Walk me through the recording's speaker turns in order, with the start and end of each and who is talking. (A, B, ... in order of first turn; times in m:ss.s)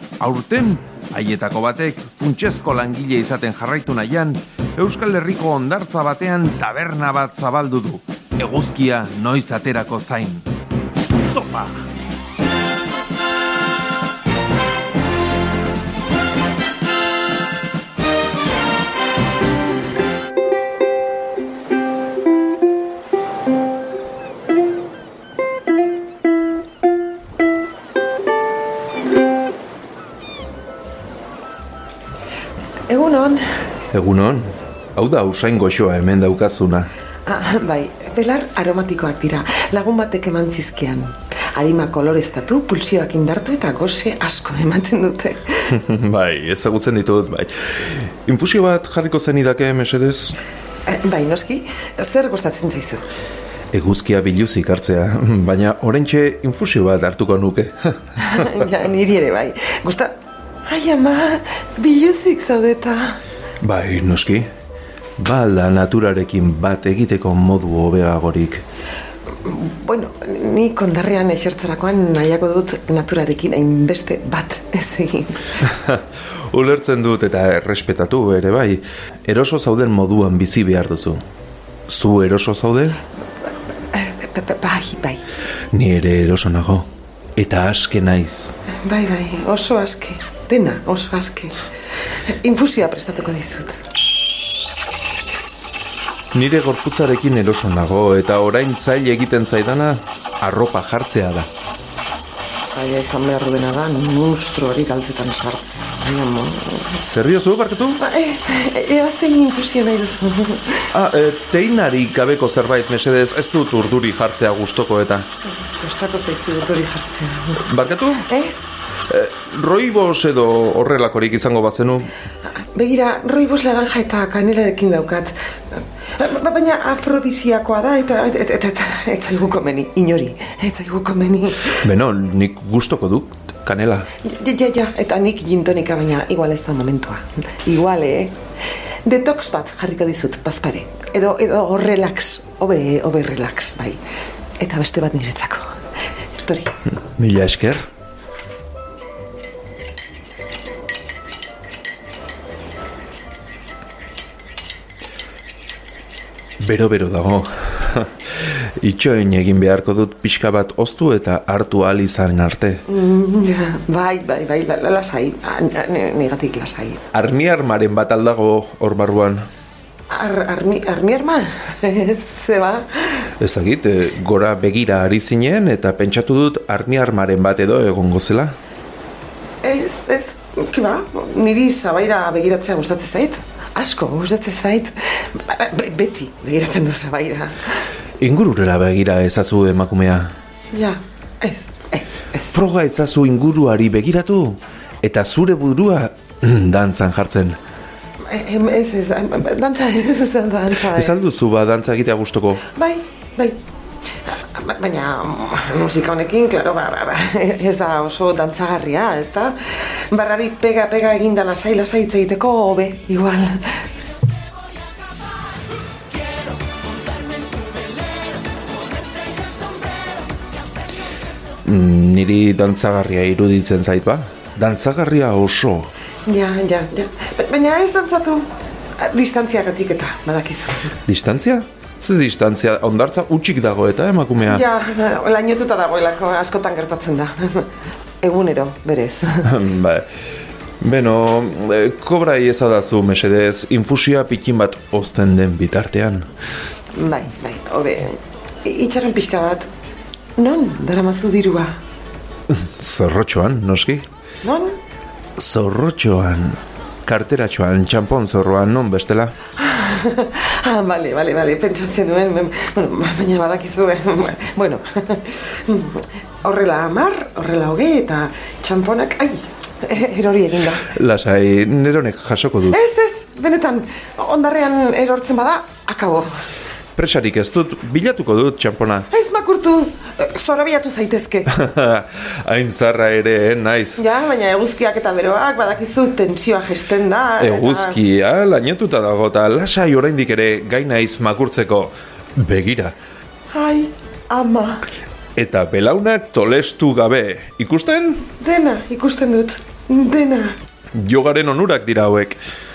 0:00.2-0:10.5 A
0:11.3-0:11.9 A
0:32.9-0:33.4 B
0:33.9-0:36.9 A
0:37.2-0:45.8 B
0:45.7-0:50.4 A
0:50.8-0:53.0 B
0:53.7-0:58.5 A
0:58.2-1:00.1 B
1:00.6-1:03.2 B
1:03.6-1:04.5 A
1:05.2-1:08.6 A
1:09.4-1:15.5 B
1:15.6-1:21.2 A
1:21.9-1:23.0 A
1:23.9-1:25.2 B
1:25.7-1:28.5 A
1:28.8-1:31.6 B
1:32.3-1:33.8 B
1:36.3-1:41.5 A
1:42.6-1:47.0 B
1:47.0-1:48.0 A
1:48.0-1:50.9 B
1:50.9-1:55.3 A
1:55.5-1:57.7 B
1:57.6-1:58.3 A
1:58.2-1:58.6 B
1:59.1-2:02.1 A
2:02.5-2:11.8 B
2:11.8-2:14.1 A
2:14.2-2:18.4 B
2:19.0-2:24.0 B
2:24.6-2:25.7 B
2:26.4-2:26.8 B
2:27.1-2:27.9 A
2:36.6-2:42.8 A
2:42.9-2:47.0 B
2:47.1-2:49.5 A
2:50.1-2:53.3 B
2:53.4-2:58.6 A
2:59.6-3:07.8 B
3:08.2-3:10.3 A
3:10.7-3:12.5 B
3:12.5-3:17.6 A
3:18.2-3:21.2 B
3:20.9-3:22.7 A
3:22.7-3:23.6 B
3:24.2-3:33.8 B
3:41.6-3:45.9 A
3:46.2-3:51.0 B
3:51.1-3:54.6 A
3:54.4-3:57.7 B
3:58.2-3:59.5 B
3:59.4-4:00.1 A
4:00.8-4:06.3 A
4:06.9-4:09.7 B
4:10.4-4:11.8 B
4:12.5-4:14.1 A
4:14.4-4:14.8 B
4:15.4-4:19.4 A
4:19.6-4:30.9 B
4:30.8-4:32.8 A
4:32.7-4:36.4 B
4:37.0-4:39.1 A
4:39.1-4:41.5 B
4:41.5-4:44.0 A
4:44.0-4:48.0 B
4:47.4-4:52.9 A
4:53.5-4:54.9 B
4:55.4-4:58.2 A
4:58.4-5:00.6 B
5:00.9-5:02.4 A